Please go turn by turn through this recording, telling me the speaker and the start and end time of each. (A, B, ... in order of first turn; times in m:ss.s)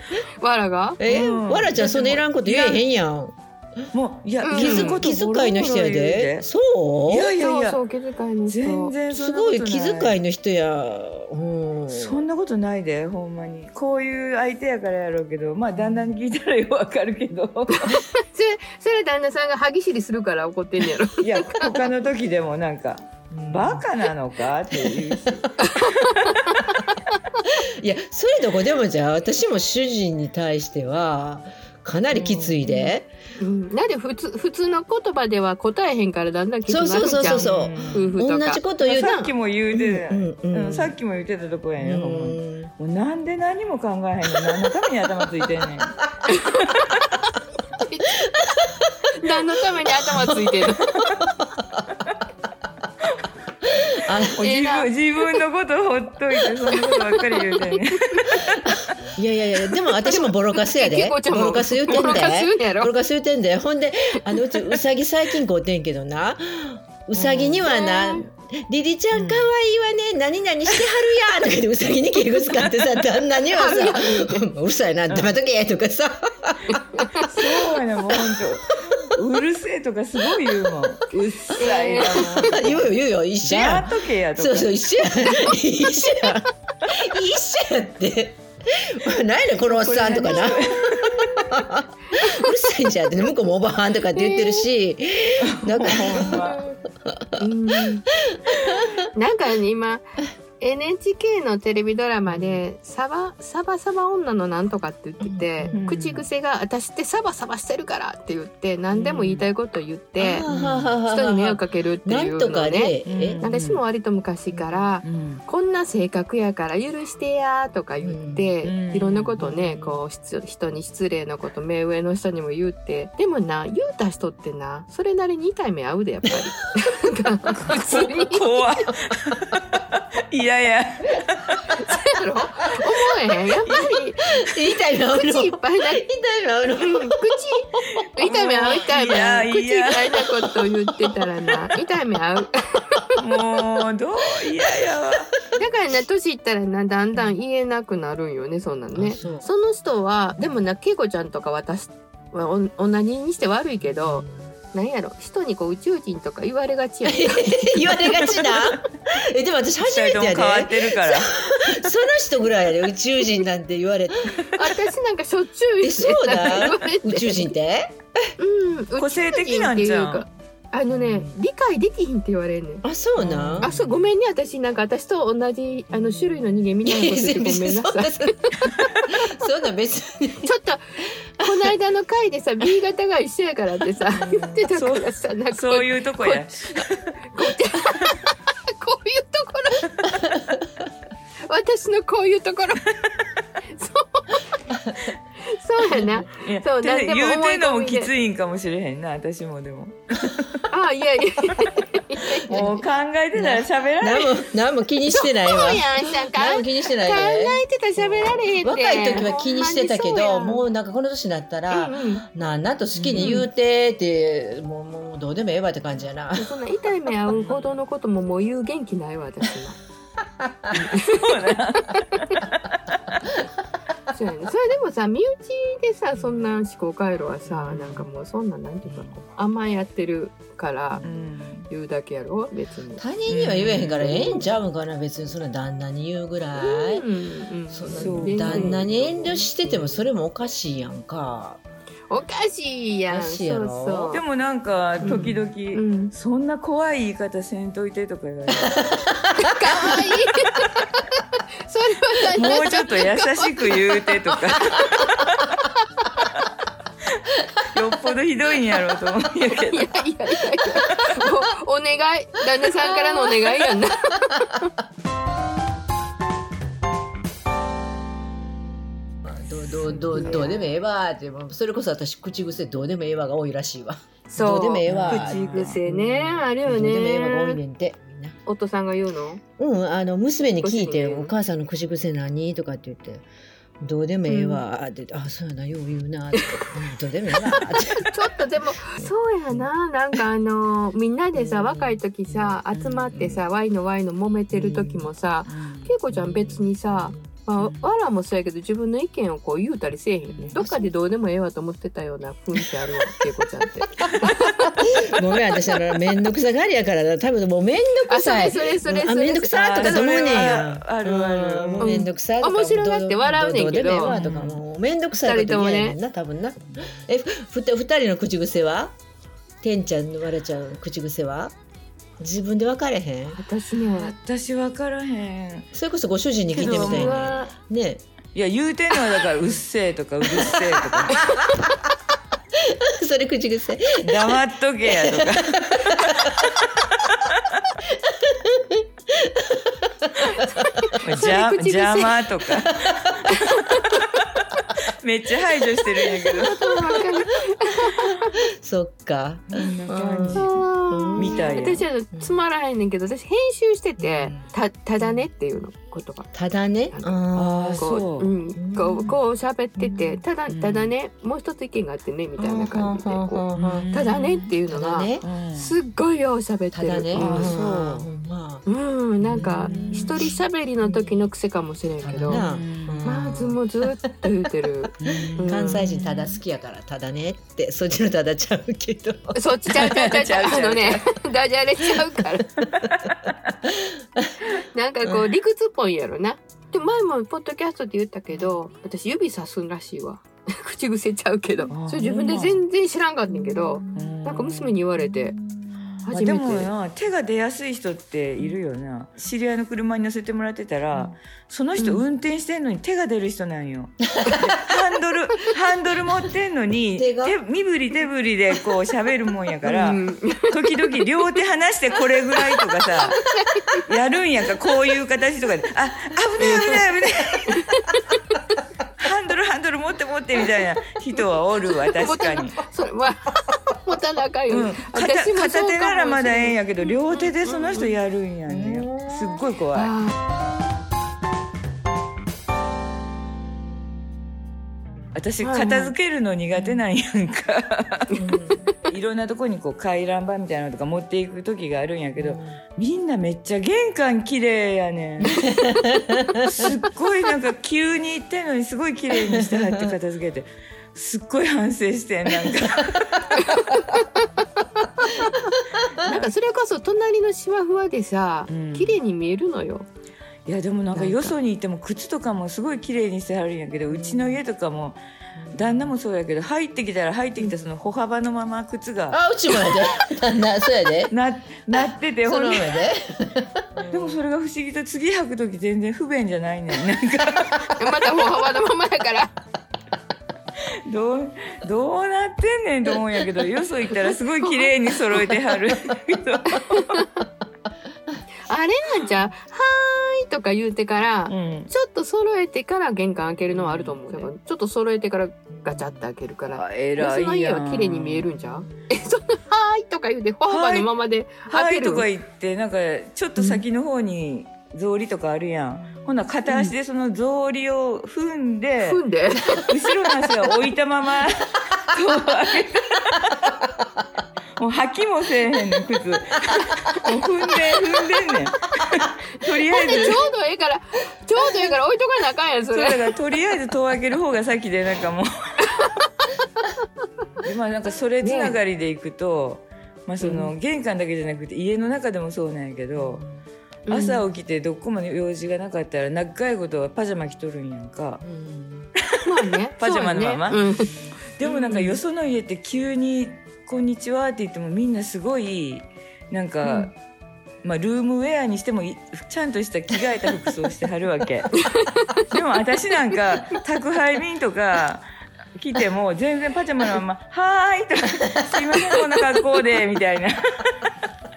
0:00.4-0:01.0 A
0:01.0-0:03.4 B
0:01.0-0:02.8 C
0:01.8-0:02.2 A
0:03.9-0:06.4 C
0:04.4-0:05.0 A
0:04.5-0:07.3 B
0:07.1-0:07.8 C
0:07.4-0:08.9 A
0:08.5-0:10.2 C
0:09.1-0:12.2 B
0:11.9-0:17.9 C
0:17.8-0:21.8 A
0:21.2-0:26.6 C
0:23.3-0:23.9 B
0:24.7-0:25.5 B
0:25.6-0:26.6 A
0:27.4-0:33.1 B
0:32.1-0:32.6 C
0:32.6-0:39.3 A
0:36.7-0:39.2 B
0:37.2-0:38.2 C
0:38.8-0:46.0 C
0:39.7-0:41.0 B
0:41.8-0:42.7 B
0:46.3-0:46.7 A
0:46.7-0:46.9 C
0:47.8-0:48.2 A
0:49.2-0:50.9 A
0:50.1-0:50.5 B
0:50.7-0:51.2 C
0:54.0-0:54.4 B
0:54.3-0:58.7 C
0:54.4-0:55.4 A
0:56.6-0:58.2 A
0:58.4-1:16.8 B
0:59.9-1:02.9 A
1:07.1-1:07.7 C
1:07.6-1:08.2 A
1:09.1-1:09.5 C
1:12.6-1:12.9 C
1:13.5-1:14.5 A
1:16.7-1:17.3 A
1:17.2-1:22.9 C
1:21.6-1:22.6 A
1:21.9-1:37.4 B
1:23.4-1:24.7 C
1:25.2-1:25.5 A
1:29.7-1:31.5 C
1:32.2-1:32.6 A
1:34.1-1:34.7 A
1:35.4-1:36.6 C
1:36.1-1:36.6 A
1:37.4-1:38.0 A
1:38.1-1:39.0 B
1:39.1-1:50.5 A
1:42.3-1:42.6 B
1:45.2-1:45.8 B
1:45.7-1:46.2 C
1:48.9-1:49.5 C
1:50.2-1:53.5 B
1:50.5-1:50.9 C
1:51.0-2:08.9 A
1:53.0-1:53.8 C
1:54.5-1:55.4 C
1:58.0-1:58.5 B
1:58.6-2:00.0 C
2:07.5-2:11.9 C
2:11.7-2:16.0 A
2:13.6-2:13.9 C
2:14.5-2:17.2 B
2:16.8-2:23.1 A
2:17.9-2:20.4 C
2:23.2-2:25.4 C
2:25.6-2:38.5 A
2:28.9-2:29.4 B
2:33.8-2:34.5 B
2:37.0-2:44.8 B
2:39.8-2:41.3 C
2:44.5-2:47.5 A
2:45.8-2:48.0 B
2:48.4-2:52.8 A
2:49.0-2:50.2 C
2:50.9-2:51.3 B
2:52.8-2:53.7 B
2:53.2-2:54.1 C
2:53.6-2:58.8 A
2:56.8-3:00.5 B
3:00.4-3:00.8 A
3:01.4-3:06.8 A
3:01.4-3:01.7 B
3:04.1-3:07.3 C
3:07.3-3:09.9 A
3:11.5-3:12.8 A
3:13.7-3:14.4 A
3:15.4-3:18.1 A
3:15.9-3:20.7 C
3:20.7-3:22.8 A
3:22.5-3:24.5 C
3:23.3-3:36.5 B
3:25.1-3:30.6 A
3:31.7-3:32.2 A
3:32.9-3:33.4 C
3:33.1-3:33.5 A
3:36.4-3:39.8 A
3:37.3-3:37.8 C
3:40.4-3:40.7 B
3:40.7-3:41.3 A
3:40.8-3:43.0 C
3:44.1-3:51.0 A
3:47.5-3:48.0 C
3:48.8-3:49.2 C
3:51.0-3:51.7 C
3:51.7-3:53.0 A
3:53.0-3:57.0 B
3:53.3-3:54.4 C
3:54.0-3:54.4 A
3:56.6-4:00.1 A
3:57.7-4:01.6 B
3:58.0-3:58.9 C
4:02.1-4:04.2 A
4:03.1-4:04.2 B
4:04.1-4:08.8 C
4:05.0-4:06.1 A
4:08.6-4:10.0 B
4:09.4-4:15.1 A
4:12.3-4:15.6 C
4:16.0-4:16.2 A
4:17.1-4:19.9 C
4:19.7-4:24.7 A
4:22.8-4:23.6 B
4:29.2-4:38.4 B
4:29.9-4:30.3 C
4:29.9-4:30.7 A
4:34.3-4:37.6 A
4:34.8-4:35.8 C
4:38.4-4:39.4 A
4:39.6-4:43.2 B
4:40.6-4:41.3 A
4:43.8-4:49.7 B
4:44.3-4:44.6 A
4:46.3-4:46.6 A
4:47.4-5:05.0 A
4:51.3-4:52.6 B
4:52.7-4:53.3 C
4:53.1-4:53.4 B
4:54.5-4:55.1 B
4:55.4-4:55.9 C
4:56.1-4:57.3 B
4:57.6-4:57.9 C
5:00.3-5:00.9 B
5:04.1-5:19.0 B
5:08.1-5:10.5 A
5:09.5-5:12.0 C
5:11.8-5:14.2 A
5:14.0-5:14.6 C
5:15.2-5:16.0 A
5:19.6-5:21.5 B
5:22.2-5:23.4 B
5:23.4-5:24.1 A
5:23.9-5:25.7 C
5:25.7-5:28.0 B
5:26.5-5:27.3 C
5:26.6-5:27.5 A
5:28.3-5:31.2 C
5:30.2-5:31.3 B
5:31.1-5:31.5 A
5:32.6-5:36.5 B
5:34.0-5:37.6 C
5:37.9-5:40.8 B
5:40.3-5:42.3 A
5:41.0-5:43.3 C
5:42.5-5:43.1 B
5:43.3-5:44.0 A
5:44.0-5:44.5 C
5:45.0-5:46.5 C
5:46.4-5:48.4 A
5:48.0-5:52.4 B
5:49.5-5:51.8 C
5:50.3-5:56.3 A
5:54.0-5:55.2 B
5:56.3-5:57.9 B
5:56.9-5:57.2 A
5:57.3-5:58.3 C
5:57.8-6:07.6 A
5:58.6-5:59.2 B
5:59.8-6:00.2 B
6:00.5-6:00.9 C
6:02.4-6:03.9 B
6:03.5-6:04.5 C
6:04.7-6:05.2 B
6:05.2-6:05.8 C
6:06.7-6:08.6 B
6:07.1-6:08.1 C
6:08.6-6:12.4 A
6:09.2-6:10.3 B
6:09.5-6:10.3 C
6:12.0-6:13.6 B
6:12.2-6:13.2 C
6:13.0-6:15.9 A
6:15.0-6:16.4 C
6:15.0-6:19.4 B
6:19.3-6:22.5 A
6:19.7-6:21.0 C
6:22.6-6:23.5 C
6:23.7-6:24.3 B
6:24.4-6:35.4 A
6:31.7-6:32.6 C
6:33.3-6:34.2 B
6:33.9-6:34.8 C
6:35.0-6:36.0 B
6:36.0-6:36.7 A
6:36.1-6:53.2 C
6:44.2-6:44.5 B
6:47.0-6:47.4 B
6:49.6-6:51.0 A
6:52.8-6:53.8 A
6:53.9-6:57.7 C
6:56.4-6:56.8 A
6:57.5-6:58.2 A
6:59.0-7:02.6 C
7:01.9-7:07.9 A
7:04.5-7:10.0 C
7:08.5-7:09.4 B
7:09.7-7:10.1 A
7:15.1-7:18.1 C
7:15.4-7:15.9 A
7:18.2-7:18.6 B
7:18.2-7:18.7 A
7:18.8-7:25.4 C
7:22.2-7:22.6 B
7:25.3-7:26.7 B
7:26.4-7:33.4 C
7:29.3-7:29.9 B
7:33.4-7:35.4 A
7:35.6-7:36.1 B
7:36.0-7:36.3 C
7:36.0-7:39.9 A
7:38.5-7:39.0 C
7:40.4-7:45.0 C
7:40.9-7:41.3 A
7:43.9-7:44.4 B
7:45.4-7:45.9 B
7:45.5-7:49.2 C
7:49.1-7:51.1 B
7:51.1-7:52.8 C
7:51.8-7:54.2 B
7:53.8-7:57.9 C
7:57.8-7:59.3 A
8:00.9-8:07.0 C
8:04.4-8:05.3 A
8:06.5-8:07.2 A
8:08.4-8:22.1 A
8:11.3-8:11.7 C
8:13.5-8:14.3 C
8:13.6-8:13.9 B
8:15.5-8:16.0 B
8:16.5-8:18.3 C
8:18.6-8:18.9 B
8:20.4-8:20.9 C
8:21.4-8:33.6 C
8:25.7-8:26.2 B
8:28.8-8:29.8 A
8:34.6-8:40.3 C
8:39.6-8:43.1 A
8:42.7-8:45.3 C
8:45.6-8:45.9 A
8:47.4-8:53.2 C
8:48.2-8:48.6 A
8:50.2-8:50.5 A
8:52.9-8:53.4 B
8:53.9-8:54.2 A
8:53.9-8:58.2 C
8:58.2-8:58.9 B
8:59.2-9:00.9 A
8:59.8-9:06.9 C
9:01.4-9:02.0 A
9:06.6-9:06.9 A
9:07.6-9:11.5 C
9:11.5-9:12.2 A
9:12.3-9:15.0 C
9:15.6-9:20.9 C